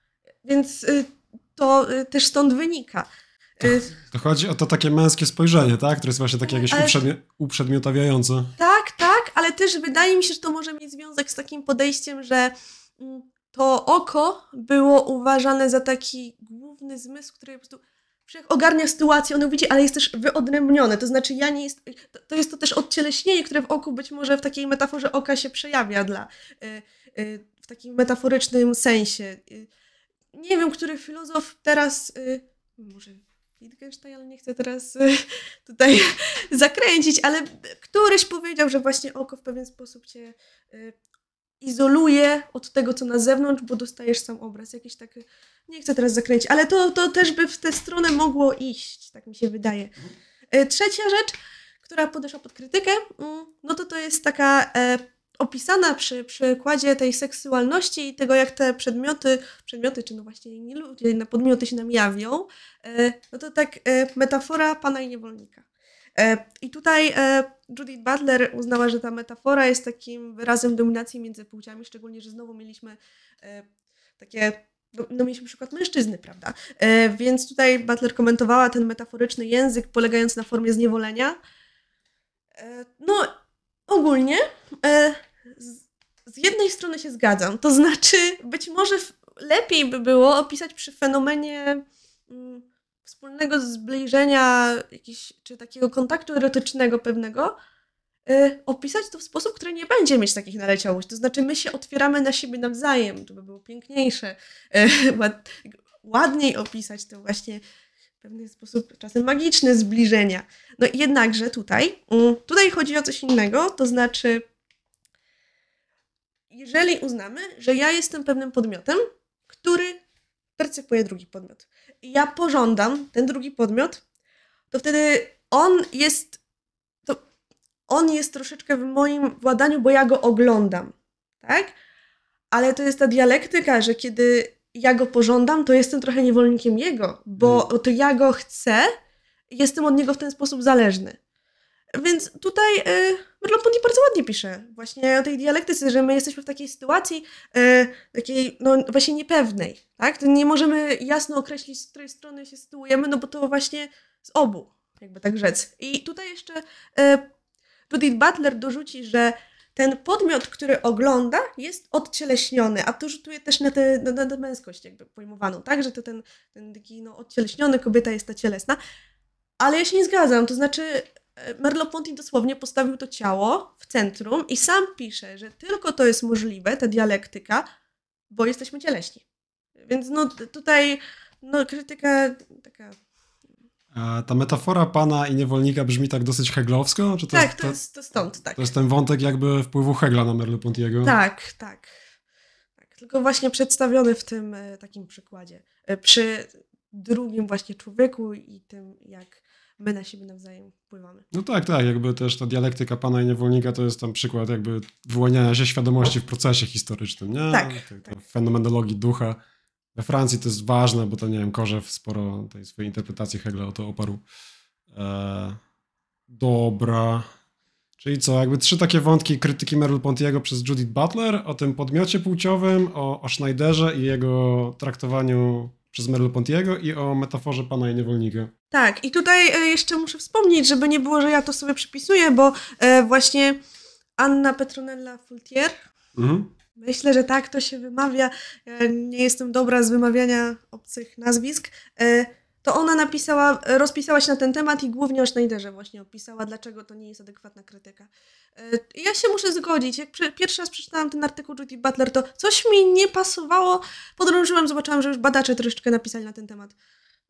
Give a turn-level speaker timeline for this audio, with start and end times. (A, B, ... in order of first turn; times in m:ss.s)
0:00.4-0:03.9 A
0:03.6-0:08.6 B
0:06.6-0:06.9 A
0:08.6-0:29.7 A
0:30.3-0:41.0 A
0:41.6-0:49.9 A
0:50.5-1:05.6 A
1:06.2-1:13.7 A
1:14.2-1:21.4 A
1:22.6-1:23.3 A
1:23.9-1:37.5 A
1:38.3-1:47.6 A
1:48.2-1:54.4 A
1:56.5-2:00.0 A
2:00.6-2:04.0 A
2:04.7-2:06.4 A
2:07.9-2:11.7 A
2:12.5-2:18.9 A
2:17.4-2:17.7 B
2:19.5-2:21.2 A
2:22.0-2:37.2 A
2:37.9-2:48.8 A
2:49.6-2:57.7 A
2:58.3-2:59.2 A
2:59.8-3:03.0 A
3:03.9-3:07.8 B
3:07.3-3:08.7 A
3:08.5-3:11.2 B
3:11.0-3:11.9 A
3:12.8-3:21.3 A
3:21.3-3:29.4 B
3:27.5-3:27.9 A
3:30.0-3:34.2 B
3:34.9-3:35.6 B
3:36.3-3:37.3 B
3:38.0-3:48.5 B
3:48.7-3:53.6 A
3:54.2-3:55.8 A
3:56.2-3:56.5 B
3:56.8-4:16.8 A